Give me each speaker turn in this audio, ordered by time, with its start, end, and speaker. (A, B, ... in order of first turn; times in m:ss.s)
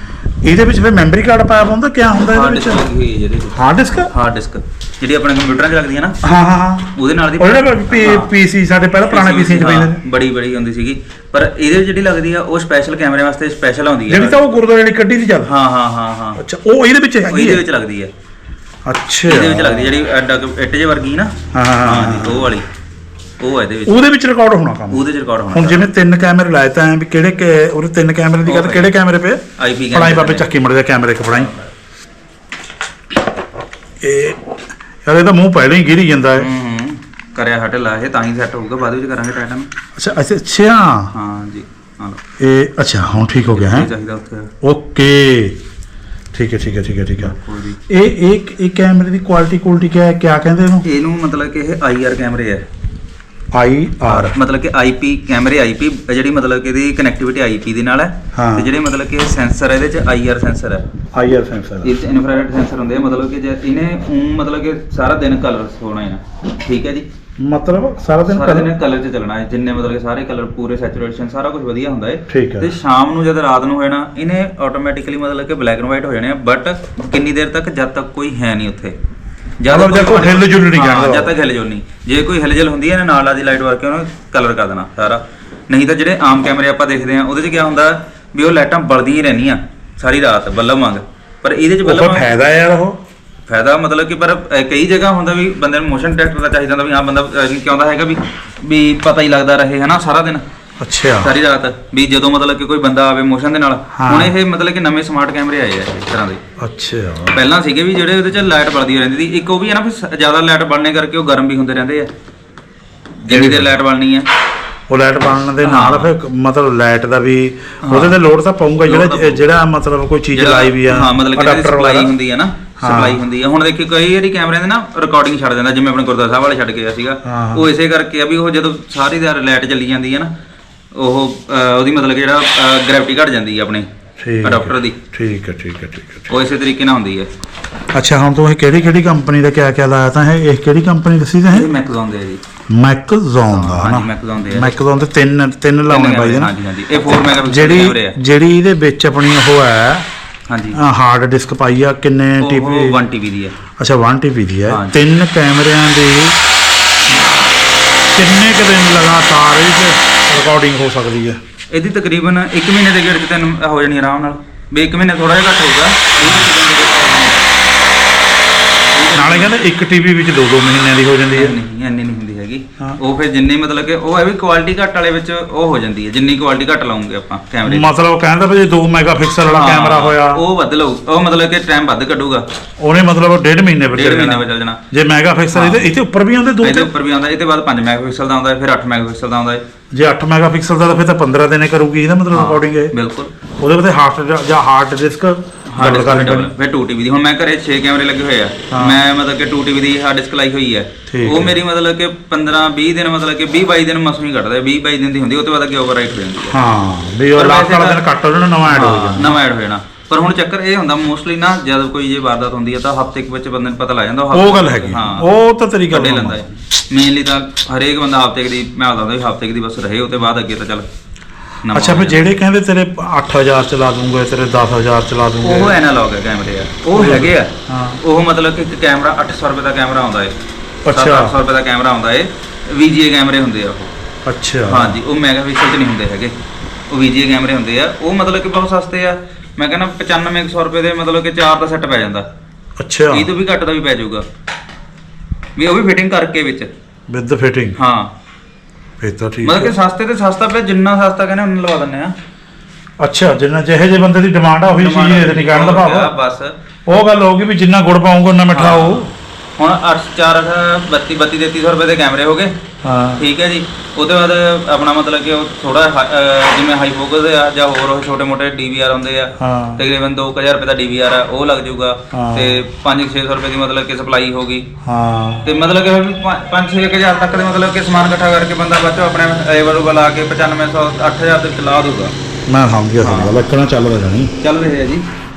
0:00.4-0:02.8 A
0:02.3-0:06.2 B
0:03.5-0:04.1 A
0:06.2-0:10.0 A
0:07.0-0:08.3 B
0:09.1-0:14.4 B
0:14.1-0:15.5 A
0:15.5-0:16.4 B
0:16.4-0:17.6 A
0:17.2-0:18.1 B
0:18.9-0:20.0 A
0:19.3-0:22.7 B
0:21.5-0:22.6 A
0:23.4-0:24.0 B
0:23.9-0:31.6 A
0:24.9-0:25.9 B
0:28.4-0:28.9 B
0:29.6-0:30.5 B
0:34.0-0:36.5 A
0:36.4-0:39.7 B
0:40.0-0:41.1 A
0:41.1-0:42.2 B
0:42.4-0:43.9 A
0:43.5-0:44.5 B
0:44.6-0:45.6 A
0:46.3-0:47.3 A
0:47.2-0:47.8 B
0:47.9-0:50.9 A
0:50.8-0:52.7 B
0:53.5-0:54.4 A
0:54.1-1:00.9 B
0:58.3-0:58.7 A
1:01.1-1:02.0 A
1:01.8-1:07.1 B
1:07.4-1:08.7 A
1:08.3-1:19.0 B
1:12.3-1:12.7 A
1:19.6-1:32.3 B
1:19.7-1:21.4 A
1:31.8-1:33.0 A
1:33.5-1:40.4 B
1:40.8-1:41.4 A
1:41.2-1:46.4 B
1:44.0-1:44.4 A
1:46.6-1:47.4 A
1:47.3-1:52.1 B
1:53.2-1:54.3 B
1:53.3-1:53.8 A
1:54.9-2:02.1 A
1:55.6-1:56.1 B
1:57.8-1:58.2 B
1:58.9-1:59.4 B
2:00.4-2:10.3 B
2:02.8-2:03.2 A
2:07.2-2:07.7 A
2:11.0-2:13.9 B
2:14.2-2:16.3 A
2:14.4-2:15.0 B
2:16.3-2:17.3 B
2:17.9-2:21.8 A
2:21.5-2:22.4 B
2:22.7-2:30.1 A
2:23.5-2:24.8 B
2:25.9-2:28.2 B
2:30.5-2:30.8 B
2:30.7-2:33.0 A
2:32.4-2:33.6 B
2:33.8-2:36.4 A
2:34.7-2:35.0 B
2:38.1-2:41.4 A
2:41.7-2:47.4 B
2:46.2-2:46.5 A
2:48.9-2:49.6 B
2:49.1-2:51.6 A
2:51.3-2:57.9 B
2:57.7-3:00.4 A
2:59.5-3:02.4 B
3:02.8-3:06.9 A
3:03.9-3:04.8 B
3:05.5-3:05.9 B
3:06.6-3:09.6 B
3:09.9-3:12.9 A
3:12.3-3:13.3 B
3:13.6-3:16.5 A
3:15.7-3:26.6 B
3:18.7-3:19.0 A
3:21.1-3:21.6 A
3:26.5-3:29.4 A
3:27.4-3:28.0 B
3:28.7-3:35.3 B
3:34.3-3:36.6 A
3:35.9-3:40.9 B
3:41.6-3:42.2 B
3:41.7-3:45.8 A
3:45.4-3:47.5 B
3:46.9-3:48.0 A
3:48.0-3:50.4 B
3:50.8-3:51.4 A
3:50.9-3:53.9 B
3:54.2-3:55.0 A
3:54.7-3:56.4 B
3:56.9-4:02.3 B
4:02.8-4:03.3 A
4:03.1-4:04.2 B
4:05.6-4:06.7 B
4:07.1-4:07.8 A
4:07.8-4:08.1 B
4:09.0-4:09.8 A
4:09.4-4:12.2 B
4:13.0-4:16.1 A
4:14.8-4:16.6 B
4:16.9-4:19.1 A
4:18.5-4:19.1 B
4:19.6-4:22.6 B
4:22.8-4:23.2 A
4:23.2-4:34.7 B
4:29.4-4:29.8 A
4:32.1-4:32.6 A
4:34.8-4:35.4 A
4:35.4-4:42.1 B
4:42.5-4:44.4 A
4:43.0-4:43.4 B
4:44.4-4:45.0 B